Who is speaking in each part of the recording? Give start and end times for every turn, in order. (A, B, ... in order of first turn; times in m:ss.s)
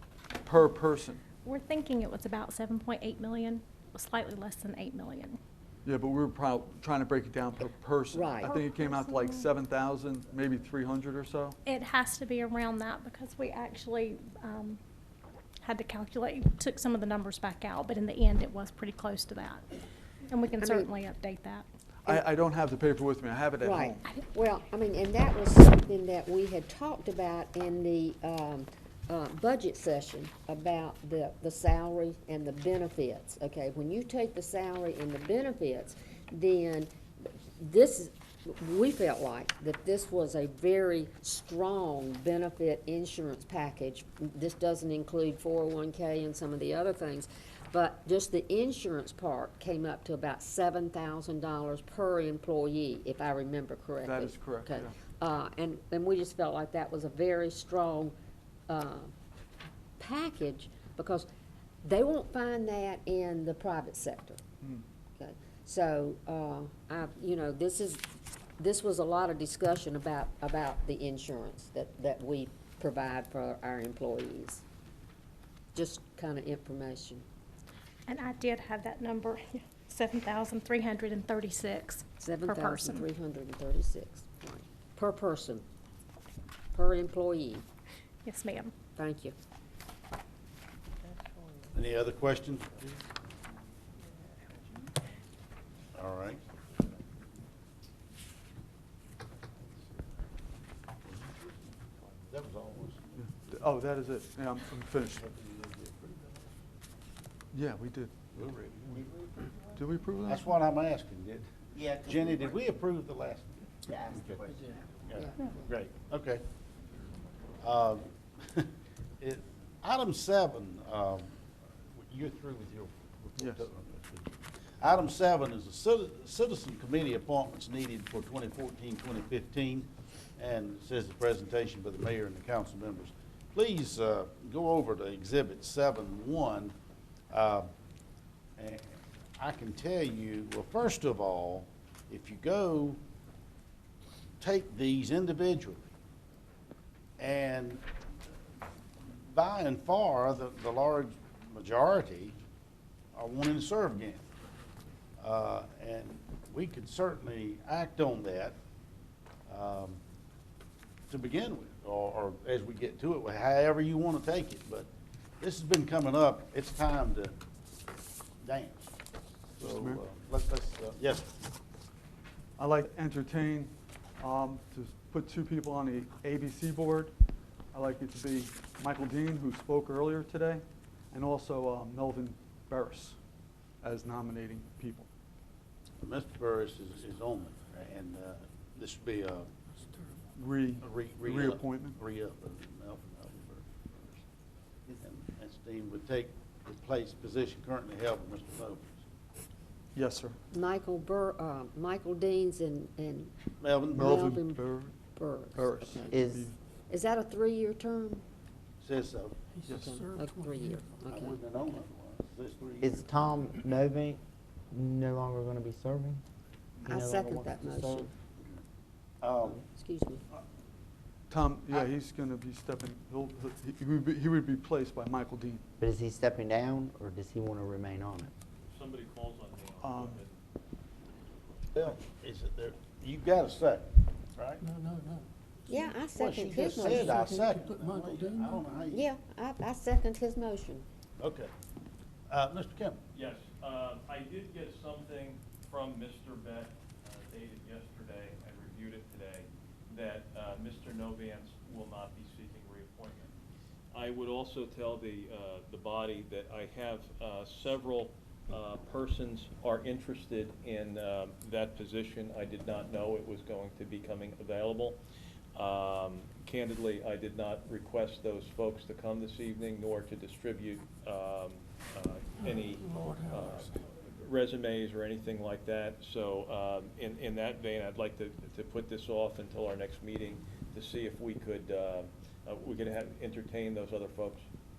0:00.4-0:01.2 A
0:01.4-0:05.4 B
0:05.8-0:11.6 A
0:08.1-0:08.5 C
0:08.4-0:09.4 B
0:11.6-0:14.8 B
0:15.6-0:19.6 B
0:20.3-0:21.6 B
0:20.6-0:20.9 C
0:22.0-0:24.0 A
0:23.6-0:58.1 C
0:54.0-0:54.9 A
0:58.7-0:59.1 C
1:00.0-1:01.3 C
1:01.8-1:04.4 C
1:05.2-1:08.1 C
1:08.6-1:14.6 C
1:15.7-1:17.2 C
1:18.1-1:23.1 B
1:22.2-1:25.6 C
1:26.7-1:27.6 C
1:28.2-1:28.7 B
1:29.0-1:29.3 C
1:31.7-1:33.0 D
1:35.9-1:36.4 D
1:42.3-1:43.1 D
1:43.1-1:45.2 A
1:45.0-1:46.4 D
1:47.5-1:48.1 A
1:48.3-1:49.1 D
1:49.8-1:50.5 A
1:50.2-1:54.4 D
1:51.7-1:52.4 E
1:53.9-1:54.8 E
1:55.0-1:56.4 D
1:57.6-2:01.3 D
2:01.9-2:16.7 D
2:03.4-2:03.6 A
2:17.3-2:17.7 D
2:18.6-2:23.0 D
2:24.4-2:25.9 D
2:27.2-2:27.8 D
2:29.1-2:32.4 D
2:33.1-2:34.2 D
2:35.2-2:38.6 D
2:39.5-2:40.0 D
2:41.1-2:44.9 D
2:45.4-2:47.3 D
2:48.4-2:48.9 D
2:49.6-2:51.3 D
2:49.6-2:50.0 A
2:52.6-2:57.1 A
2:57.7-3:03.2 A
3:03.8-3:05.1 A
3:06.0-3:09.5 D
3:10.4-3:12.0 A
3:10.8-3:14.2 D
3:14.9-3:19.0 D
3:19.9-3:20.4 A
3:20.5-3:23.3 C
3:23.6-3:24.2 D
3:23.9-3:26.2 C
3:23.9-3:24.9 A
3:25.5-3:26.5 A
3:26.1-3:26.5 E
3:26.9-3:28.2 C
3:28.8-3:29.4 D
3:29.7-3:30.7 F
3:29.7-3:31.4 C
3:31.1-3:33.1 D
3:32.8-3:36.2 E
3:36.8-3:38.1 E
3:36.8-3:38.1 C
3:39.2-3:39.6 D
3:39.5-3:40.2 C
3:41.3-3:45.6 A
3:45.8-3:48.3 E
3:48.7-3:50.4 G
3:49.8-3:50.2 A
3:51.7-3:54.6 D
3:54.6-3:55.2 F
3:55.7-3:57.5 C
3:56.1-3:59.1 D
3:56.8-3:58.8 F
3:58.9-4:00.8 C
4:01.2-4:01.5 D
4:02.3-4:03.0 D
4:03.1-4:13.3 G
4:13.9-4:25.0 G
4:25.5-4:44.4 G
4:33.0-4:33.6 F